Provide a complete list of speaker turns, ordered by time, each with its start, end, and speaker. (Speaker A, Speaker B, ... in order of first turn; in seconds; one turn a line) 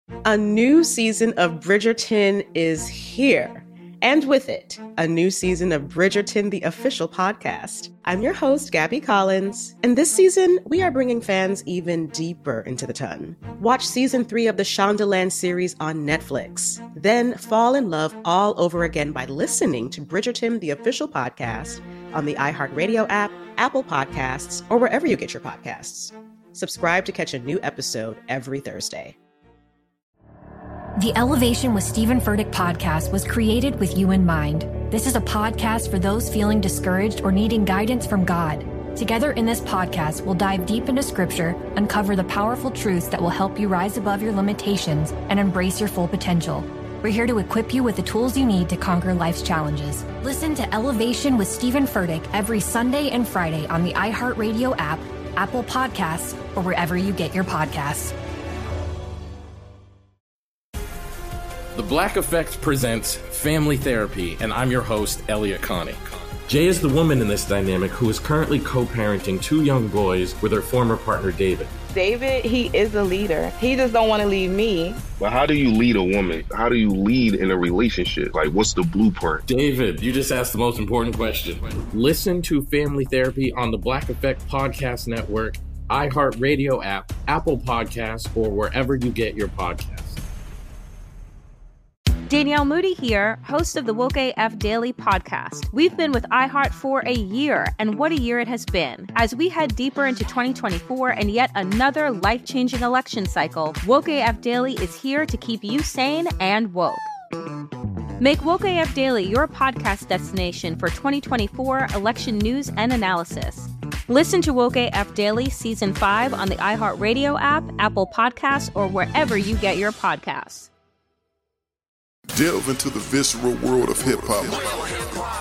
Speaker A: 0.2-29.2
Speaker B: 31.0-58.1
Speaker C: 61.7-71.7
Speaker D: 71.9-75.0
Speaker E: 75.2-79.4
Speaker C: 79.5-90.2
Speaker F: 92.3-107.1
Speaker F: 108.2-120.7
Speaker G: 122.3-125.0